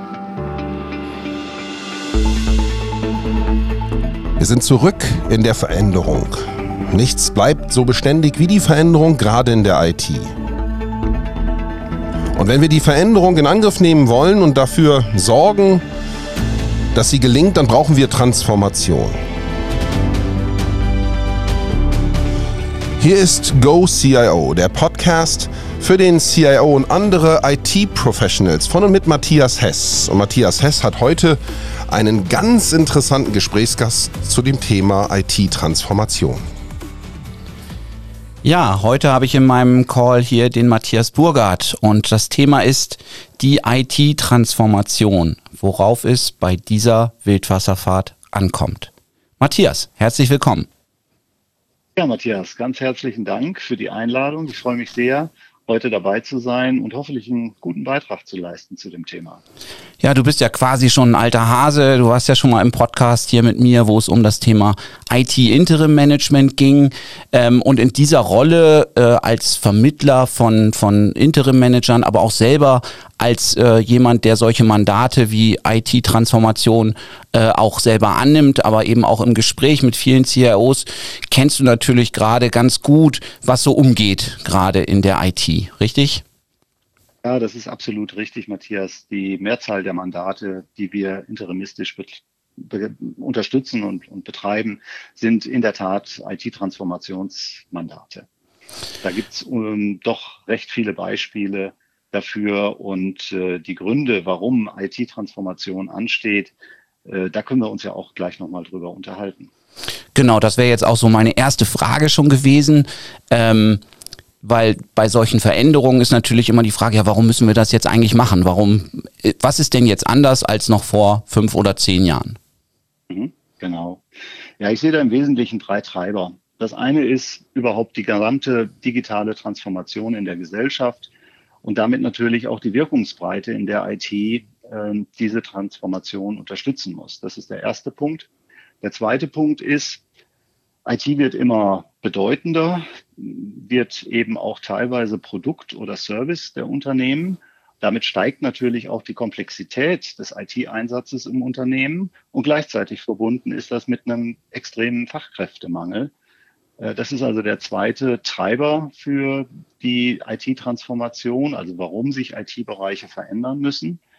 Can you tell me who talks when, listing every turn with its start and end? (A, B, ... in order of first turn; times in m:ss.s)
0:04.4-0:10.3 A
0:12.4-0:15.8 A
0:16.9-0:19.2 A
0:23.0-0:36.4 A
0:38.4-0:50.7 B
0:52.0-0:59.4 C
1:00.0-1:26.2 B
1:27.2-1:38.3 C
1:39.0-1:46.5 C
1:47.0-1:49.5 C
1:50.1-1:53.8 B
1:54.4-2:02.4 B
2:03.1-2:04.0 C
2:04.6-2:11.1 C
2:11.6-2:18.3 C
2:18.8-2:20.0 C
2:20.8-2:36.1 C
2:36.8-2:44.0 C